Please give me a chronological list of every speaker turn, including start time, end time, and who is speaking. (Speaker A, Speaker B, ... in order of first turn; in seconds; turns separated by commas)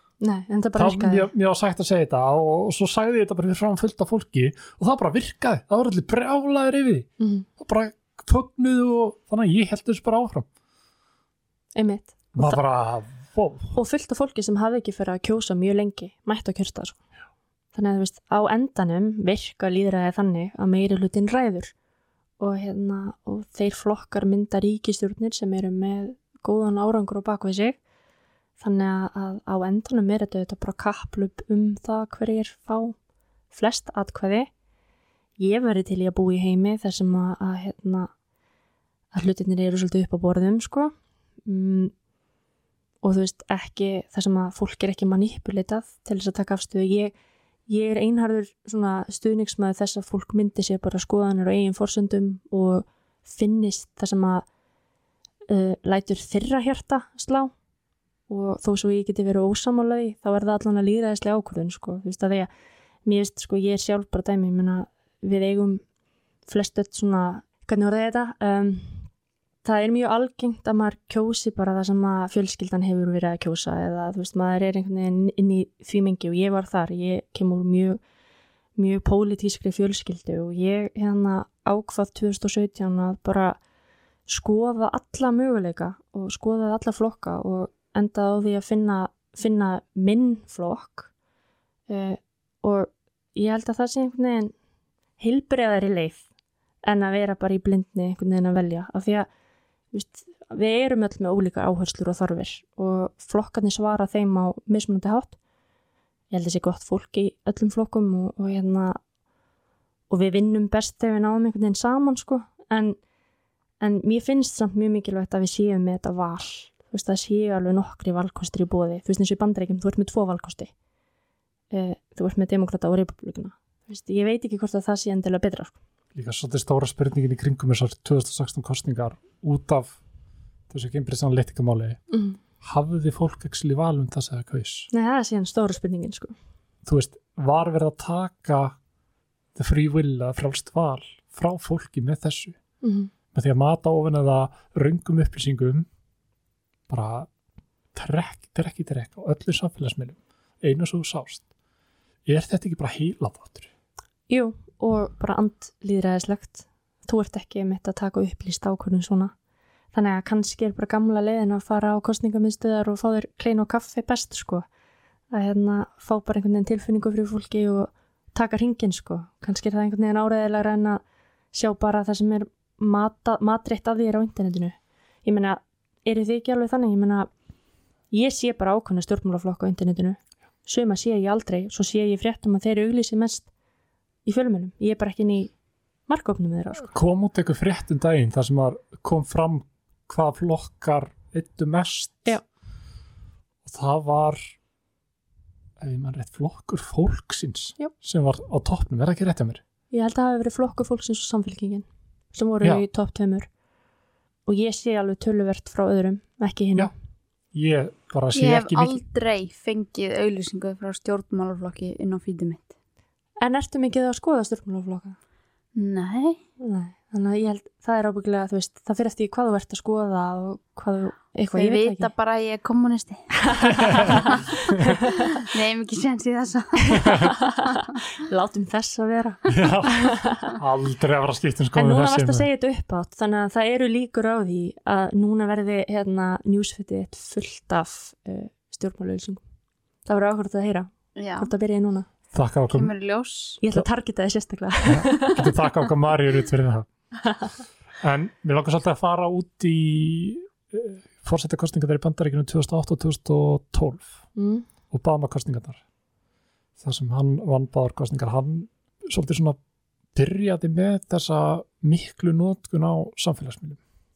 Speaker A: 0.2-1.3, Speaker B: 0.8-10.5, Speaker A: 7.2-7.5, Speaker A: 11.8-12.6, Speaker B: 12.3-13.8, Speaker A: 13.7-17.0, Speaker A: 17.7-21.7, Speaker A: 22.4-27.8, Speaker A: 28.6-32.9, Speaker A: 33.5-34.5, Speaker A: 35.4-38.1, Speaker A: 39.1-40.9, Speaker A: 41.4-41.9, Speaker A: 43.0-47.1, Speaker A: 47.7-54.4, Speaker A: 55.5-57.5, Speaker A: 58.3-62.5, Speaker A: 63.0-65.8, Speaker A: 66.5-69.1, Speaker A: 69.6-78.0, Speaker A: 78.8-83.6, Speaker A: 84.3-91.1, Speaker A: 91.9-94.5, Speaker A: 95.2-96.2, Speaker A: 96.8-99.3, Speaker A: 99.9-105.4, Speaker A: 106.3-109.0, Speaker A: 110.1-113.0, Speaker A: 113.8-120.7, Speaker A: 121.7-125.8, Speaker B: 126.1-130.0, Speaker B: 130.7-132.0, Speaker A: 132.1-132.4, Speaker B: 132.6-134.9, Speaker A: 134.9-136.3, Speaker B: 136.8-138.8, Speaker B: 139.5-142.6, Speaker A: 142.8-143.1, Speaker B: 143.3-145.9, Speaker B: 146.9-147.3, Speaker B: 147.9-151.4, Speaker B: 152.2-153.7, Speaker A: 154.3-159.3, Speaker A: 159.9-164.6, Speaker A: 165.3-171.0, Speaker A: 171.5-177.3, Speaker A: 178.1-183.5, Speaker A: 184.2-185.5, Speaker A: 186.1-186.9, Speaker B: 186.8-192.4, Speaker B: 193.6-194.4, Speaker B: 195.8-199.6, Speaker A: 199.9-203.5, Speaker A: 204.5-206.9, Speaker B: 207.5-209.0, Speaker C: 208.3-212.7, Speaker A: 213.4-215.2, Speaker C: 215.7-216.4, Speaker A: 216.6-222.1, Speaker C: 221.5-224.4, Speaker A: 223.4-225.2, Speaker B: 223.8-225.0, Speaker C: 225.1-227.3, Speaker A: 226.9-230.5, Speaker B: 229.5-232.4, Speaker A: 231.7-239.4, Speaker A: 240.1-242.1, Speaker C: 241.2-241.5, Speaker B: 242.3-242.9, Speaker C: 242.7-243.6, Speaker A: 243.6-245.5, Speaker B: 244.9-246.9, Speaker B: 248.0-254.2, Speaker A: 254.3-254.7, Speaker B: 254.9-255.8, Speaker B: 256.8-259.6, Speaker B: 260.1-263.8